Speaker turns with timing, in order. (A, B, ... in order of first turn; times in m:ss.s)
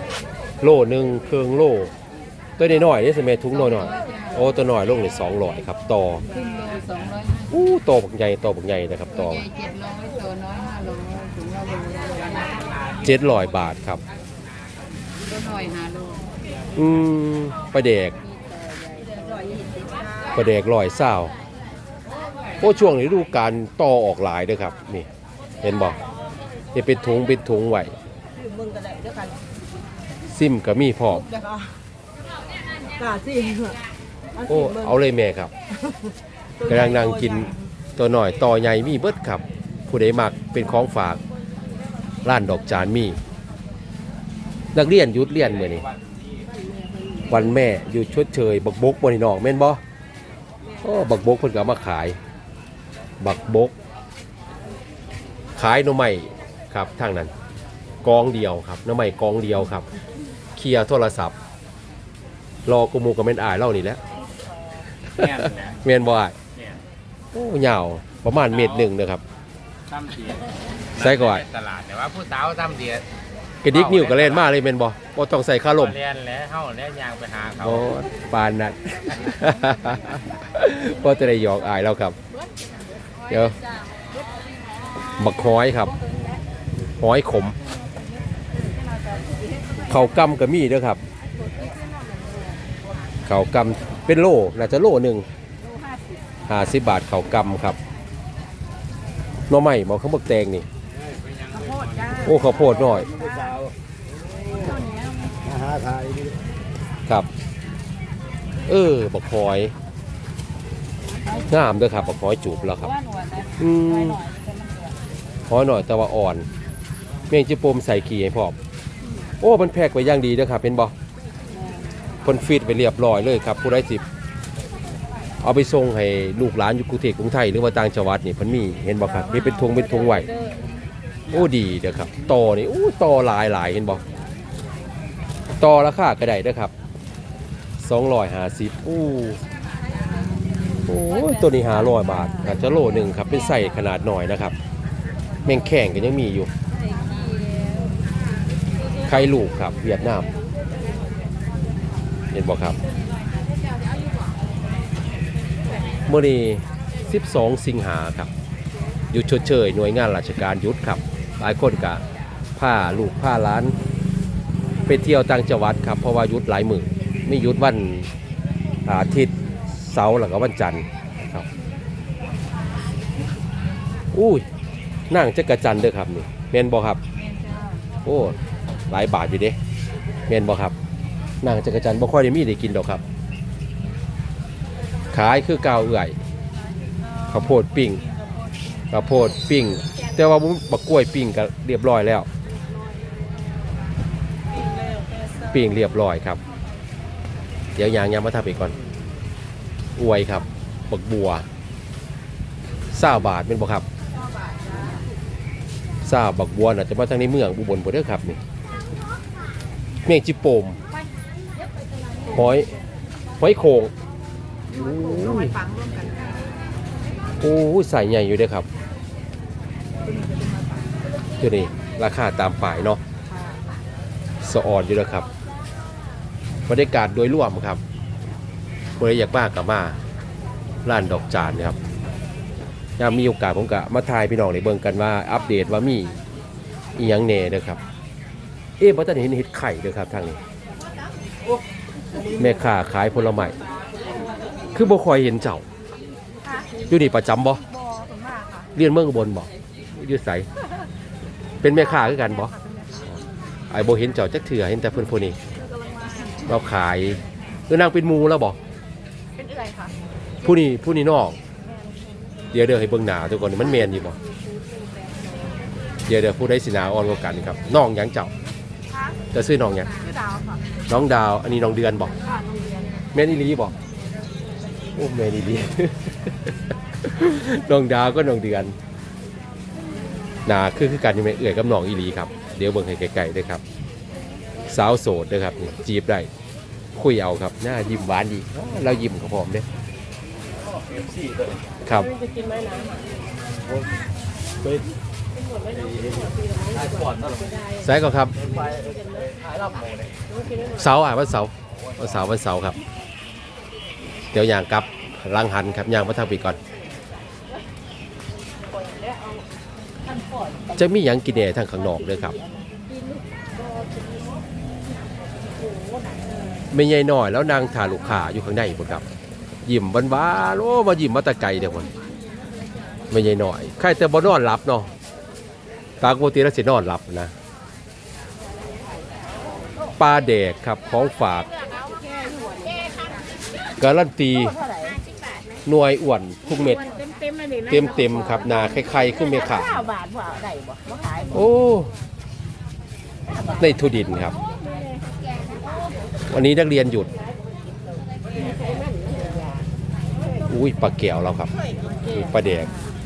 0:00.6-0:01.9 A
0:02.6-0:06.2 A
0:03.6-0:04.4 B
0:06.3-0:07.5 B
0:07.5-0:09.5 A
0:09.2-0:12.6 B
0:12.4-0:13.0 C
0:13.0-0:14.0 A
0:15.3-0:16.3 B
0:16.7-0:18.2 A
0:18.8-0:19.6 B
0:19.2-0:20.1 D
0:20.3-0:21.3 A
0:22.6-0:25.1 A
0:25.6-0:26.0 A
0:26.7-0:28.0 A
0:28.6-0:29.3 D
0:30.3-0:31.3 A
0:34.4-0:35.5 A
0:36.6-0:41.2 A
0:42.2-0:43.2 A
0:44.7-0:45.8 A
0:47.3-0:49.8 A
0:50.8-0:52.2 A
0:53.2-0:53.7 A
0:55.6-0:57.3 A
0:58.0-0:59.9 A
1:00.6-1:01.3 A
1:02.6-1:04.0 A
1:05.1-1:06.4 A
1:05.2-1:05.8 C
1:07.3-1:09.2 A
1:09.9-1:10.4 C
1:11.0-1:11.4 A
1:11.0-1:13.0 C
1:13.6-1:16.0 A
1:13.7-1:14.4 C
1:15.8-1:17.8 C
1:17.6-1:22.2 A
1:23.3-1:23.6 A
1:25.2-1:25.9 A
1:27.0-1:27.6 A
1:29.9-1:31.0 A
1:33.2-1:35.2 A
1:36.5-1:37.8 A
1:39.5-1:40.7 A
1:41.5-1:42.1 C
1:42.2-1:43.1 A
1:48.7-1:49.7 A
1:51.5-1:52.9 A
1:53.6-1:54.2 A
1:55.5-1:56.4 A
1:57.3-1:58.6 A
1:59.4-2:00.9 A
2:02.2-2:04.0 A
2:05.4-2:10.3 A
2:11.3-2:14.0 A
2:15.6-2:16.7 A
2:17.8-2:19.4 A
2:20.8-2:24.5 A
2:25.4-2:26.5 A
2:29.0-2:30.3 A
2:32.3-2:32.8 A
2:36.1-2:38.3 A
2:39.1-2:42.0 A
2:42.6-2:43.7 A
2:44.9-2:48.1 A
2:48.8-2:51.4 A
2:54.1-2:54.4 A
2:55.1-2:57.0 A
2:58.0-2:58.4 A
2:58.9-2:59.6 A
3:00.3-3:00.7 A
3:01.4-3:03.0 A
3:05.1-3:06.2 A
3:07.3-3:08.0 A
3:08.9-3:12.3 A
3:15.4-3:16.4 A
3:17.7-3:18.7 A
3:20.0-3:21.4 A
3:22.9-3:23.8 A
3:26.0-3:28.4 A
3:30.0-3:30.8 A
3:32.3-3:32.7 A
3:33.4-3:33.9 A
3:34.7-3:35.6 A
3:35.6-3:36.4 C
3:37.4-3:38.7 A
3:41.4-3:43.0 A
3:44.4-3:45.3 A
3:46.7-3:47.8 A
3:49.0-3:50.0 A
3:50.8-3:51.8 A
3:53.0-3:56.2 A
3:56.9-3:57.8 A
3:58.8-4:00.4 A
4:02.3-4:03.6 A
4:04.7-4:05.6 A
4:06.9-4:07.6 A
4:07.7-4:08.4 C
4:07.9-4:08.3 B
4:08.7-4:10.5 A
4:11.6-4:12.5 A
4:13.7-4:15.4 A
4:16.4-4:18.6 A
4:19.4-4:19.8 B
4:20.4-4:21.4 A
4:22.5-4:24.2 A
4:26.1-4:28.3 A
4:29.3-4:29.9 A
4:30.9-4:32.2 A
4:33.1-4:33.7 A
4:34.9-4:38.7 A
4:40.4-4:43.6 A
4:44.6-4:46.3 A
4:46.9-4:49.6 A
4:51.8-4:52.1 A
4:57.8-4:58.3 A
5:00.7-5:02.8 A
5:04.3-5:06.6 A
5:10.8-5:12.4 A
5:16.7-5:19.0 A
5:19.6-5:21.9 A
5:23.1-5:24.9 A
5:26.0-5:27.3 A
5:30.0-5:31.5 A
5:31.6-5:33.3 D
5:33.8-5:34.5 A
5:34.3-5:35.4 D
5:35.6-5:36.8 A
5:36.6-5:41.5 D
5:37.6-5:39.7 A
5:41.3-5:41.9 A
5:43.5-5:44.4 A
5:44.8-5:45.6 D
5:46.3-5:47.1 A
5:48.3-5:49.6 D
5:50.4-5:51.5 A
5:52.0-5:52.7 A